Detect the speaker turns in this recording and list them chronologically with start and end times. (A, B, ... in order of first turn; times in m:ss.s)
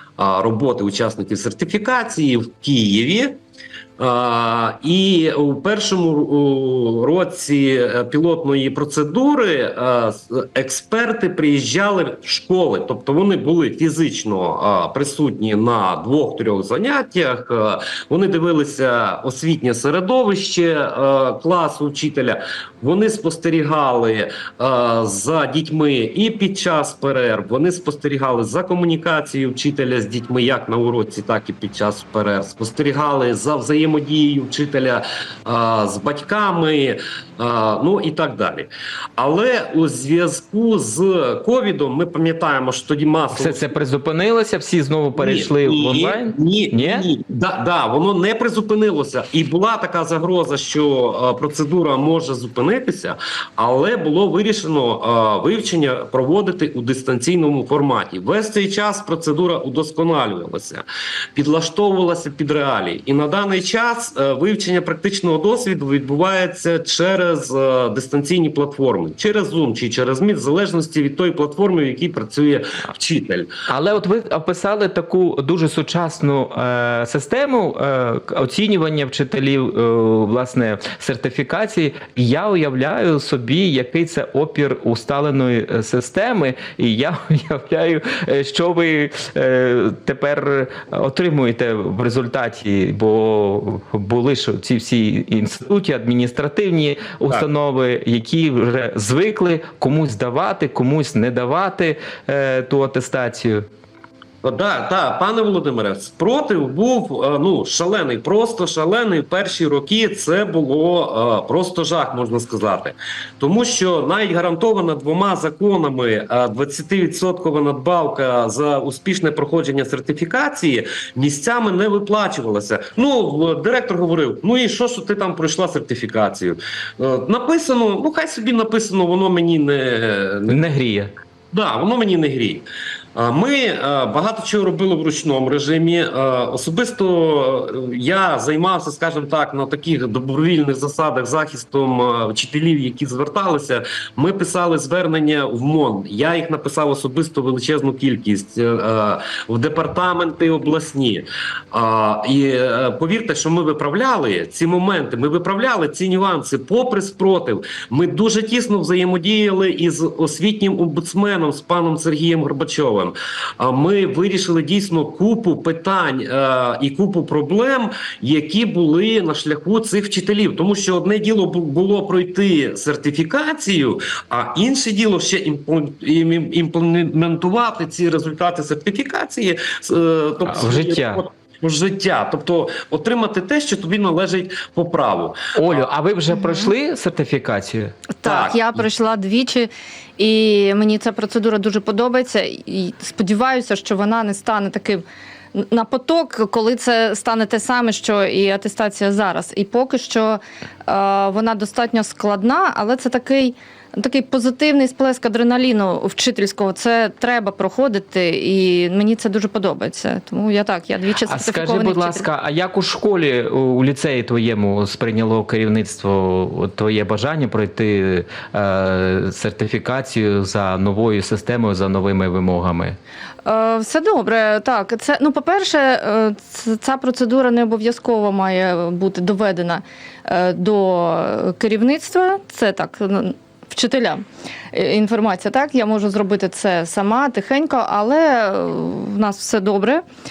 0:00.2-0:03.4 A
0:04.0-0:43.8 A
0:43.3-0:47.1 B
0:45.2-1:00.8 A
1:01.4-1:13.5 A
1:13.7-1:43.7 B
1:44.4-2:10.6 A
2:10.5-2:11.1 B
2:11.5-3:05.8 A
3:00.4-3:01.2 B
3:05.5-3:08.0 B
3:06.3-3:06.7 C
3:08.2-3:32.3 C
3:08.2-3:08.6 A
3:31.3-3:43.0 B
3:43.4-4:00.0 C